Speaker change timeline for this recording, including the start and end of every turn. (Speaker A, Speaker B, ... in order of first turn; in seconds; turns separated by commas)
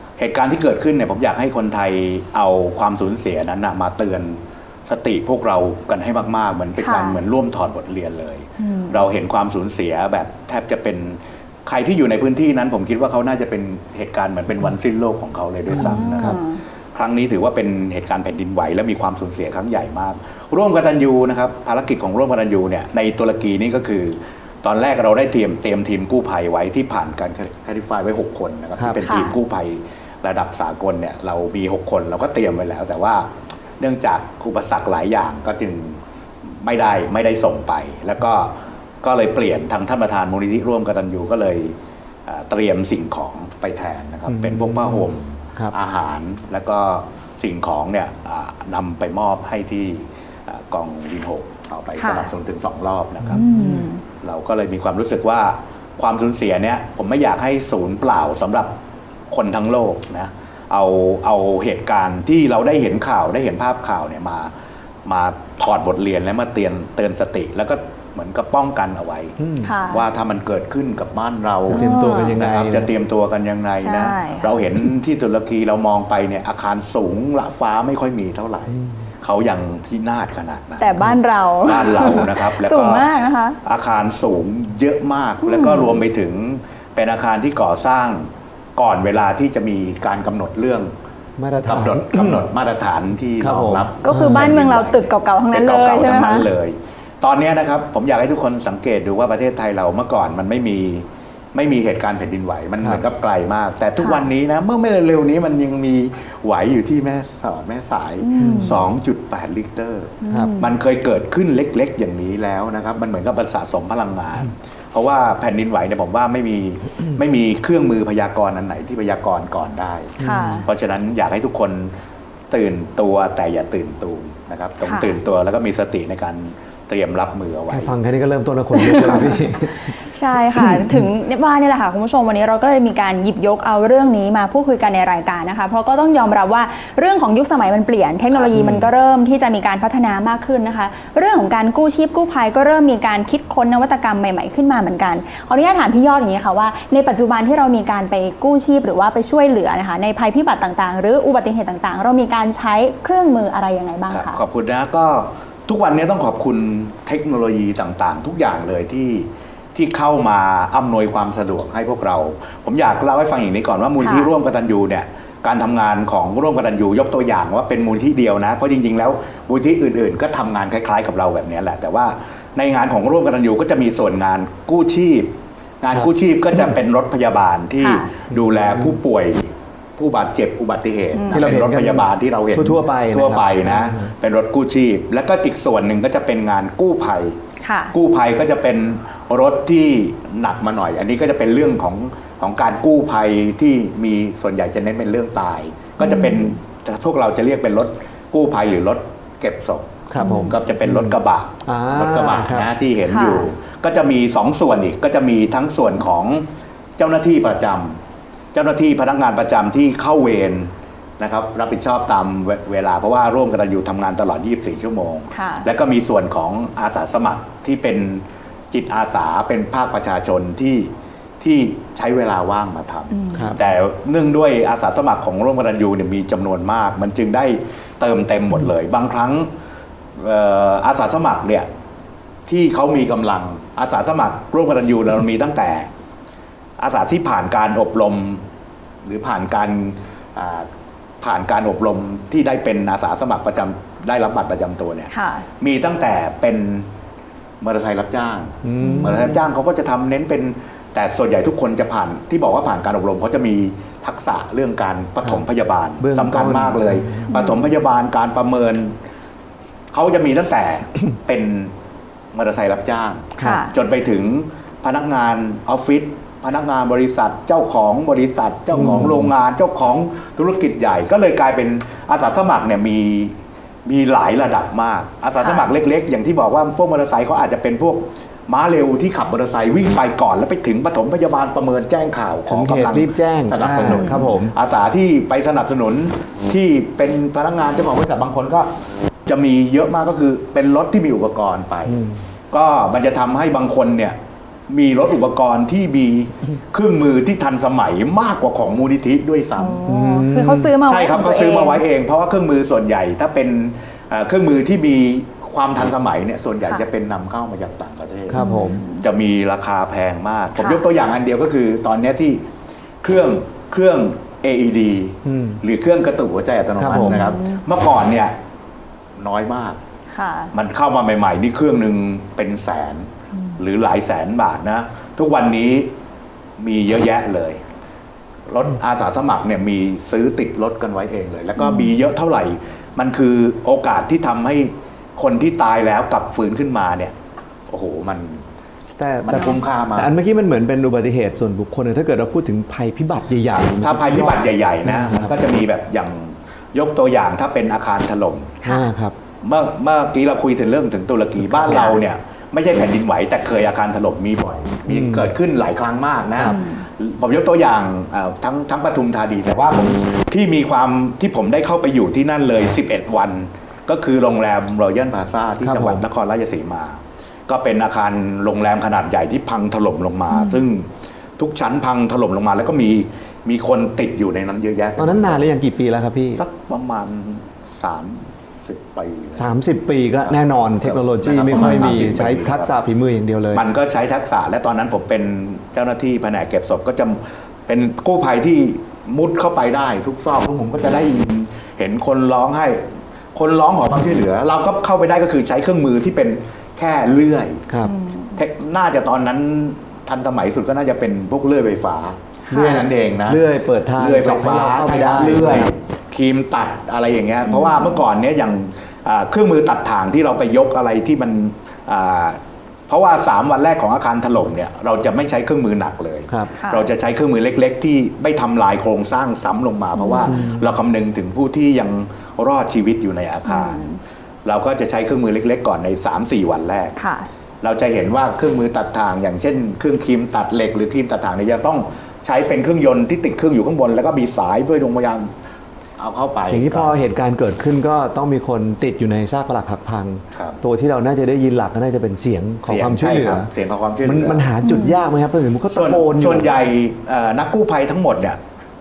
Speaker A: 0.2-16.4, Speaker B: 6.8-7.2, Speaker B: 8.6-9.0, Speaker C: 15.7-16.4, Speaker B: 15.7-16.6, Speaker A: 16.9-33.3, Speaker C: 28.8-29.0, Speaker B: 29.0-29.4, Speaker A: 33.8-53.5, Speaker C: 44.3-45.8, Speaker B: 52.0-52.3, Speaker C: 53.2-53.9, Speaker B: 53.3-54.0, Speaker A: 54.2-58.7, Speaker A: 59.3-64.5, Speaker A: 65.1-69.4, Speaker C: 69.4-69.7, Speaker B: 69.6-70.1, Speaker A: 69.9-81.1, Speaker C: 71.7-72.9, Speaker B: 71.7-72.4, Speaker B: 73.8-74.6, Speaker B: 80.8-83.6, Speaker A: 81.6-90.9, Speaker B: 85.4-86.0, Speaker C: 91.4-92.5, Speaker A: 91.6-121.9, Speaker C: 93.4-94.5, Speaker B: 94.0-96.5, Speaker B: 104.0-104.3, Speaker B: 108.2-108.8, Speaker C: 108.4-108.7, Speaker B: 110.2-110.7, Speaker C: 110.3-110.5, Speaker C: 120.2-120.7, Speaker B: 120.2-120.7, Speaker A: 122.5-128.0, Speaker B: 124.8-125.2, Speaker C: 127.7-129.9, Speaker B: 128.7-129.4, Speaker A: 128.9-129.4, Speaker B: 130.0-154.4, Speaker C: 130.6-130.9, Speaker A: 138.3-138.9, Speaker C: 138.6-138.9, Speaker A: 154.1-187.4, Speaker B: 164.0-164.3, Speaker B: 177.8-178.1, Speaker B: 181.1-181.5, Speaker C: 181.3-184.1, Speaker B: 187.6-187.9, Speaker A: 187.9-208.0, Speaker B: 196.0-196.6, Speaker C: 200.1-202.7, Speaker B: 200.2-200.6, Speaker B: 203.1-203.5, Speaker A: 208.5-229.5, Speaker B: 215.3-215.7, Speaker B: 223.1-223.6, Speaker A: 230.2-231.7, Speaker A: 232.5-235.9, Speaker A: 236.8-238.4, Speaker A: 239.0-240.7, Speaker A: 241.2-246.9, Speaker B: 245.1-245.4, Speaker A: 247.6-259.0, Speaker C: 248.6-249.4, Speaker B: 248.8-249.2, Speaker C: 256.0-257.3, Speaker B: 257.3-257.7, Speaker A: 259.9-261.7, Speaker A: 262.3-288.7, Speaker B: 263.4-263.7, Speaker C: 268.7-269.3, Speaker B: 275.4-275.7, Speaker C: 282.5-284.6, Speaker B: 283.8-284.3, Speaker A: 289.3-292.0, Speaker C: 291.9-292.2, Speaker A: 292.5-294.2, Speaker A: 294.7-299.9, Speaker B: 299.6-301.8, Speaker C: 299.9-300.8, Speaker A: 300.9-308.4, Speaker C: 308.3-308.9, Speaker B: 308.3-309.1, Speaker A: 309.0-312.4, Speaker B: 310.6-310.8, Speaker A: 313.0-318.4, Speaker C: 315.2-315.6, Speaker C: 316.8-317.3, Speaker B: 316.9-317.6, Speaker A: 319.2-319.8, Speaker B: 320.1-320.5, Speaker A: 320.5-325.9, Speaker A: 326.6-327.6, Speaker A: 328.5-337.1, Speaker B: 331.6-331.9, Speaker A: 337.7-338.4, Speaker C: 339.0-345.4, Speaker A: 339.2-340.1, Speaker B: 339.3-339.6, Speaker A: 343.5-348.6, Speaker B: 348.6-348.9, Speaker C: 348.6-349.1, Speaker A: 349.4-375.5, Speaker C: 351.4-351.9, Speaker B: 351.6-352.0, Speaker C: 354.9-355.3, Speaker B: 356.4-356.9, Speaker C: 365.6-366.0, Speaker B: 370.3-370.6, Speaker C: 375.0-376.4, Speaker A: 376.4-379.5, Speaker C: 379.4-383.6, Speaker A: 380.2-382.7, Speaker B: 381.5-382.0, Speaker A: 383.5-397.6, Speaker B: 397.8-398.4, Speaker A: 398.4-423.9, Speaker C: 402.5-405.7, Speaker B: 402.5-402.8, Speaker B: 407.4-408.0, Speaker B: 416.6-416.9, Speaker B: 420.0-420.4, Speaker C: 420.3-420.6, Speaker B: 423.4-424.0, Speaker A: 424.4-427.0, Speaker B: 427.0-427.3, Speaker A: 427.6-435.3, Speaker A: 436.0-437.0, Speaker C: 436.5-443.5, Speaker A: 440.3-440.6, Speaker A: 442.7-444.5, Speaker C: 444.1-446.6, Speaker B: 444.6-445.0, Speaker A: 445.7-448.4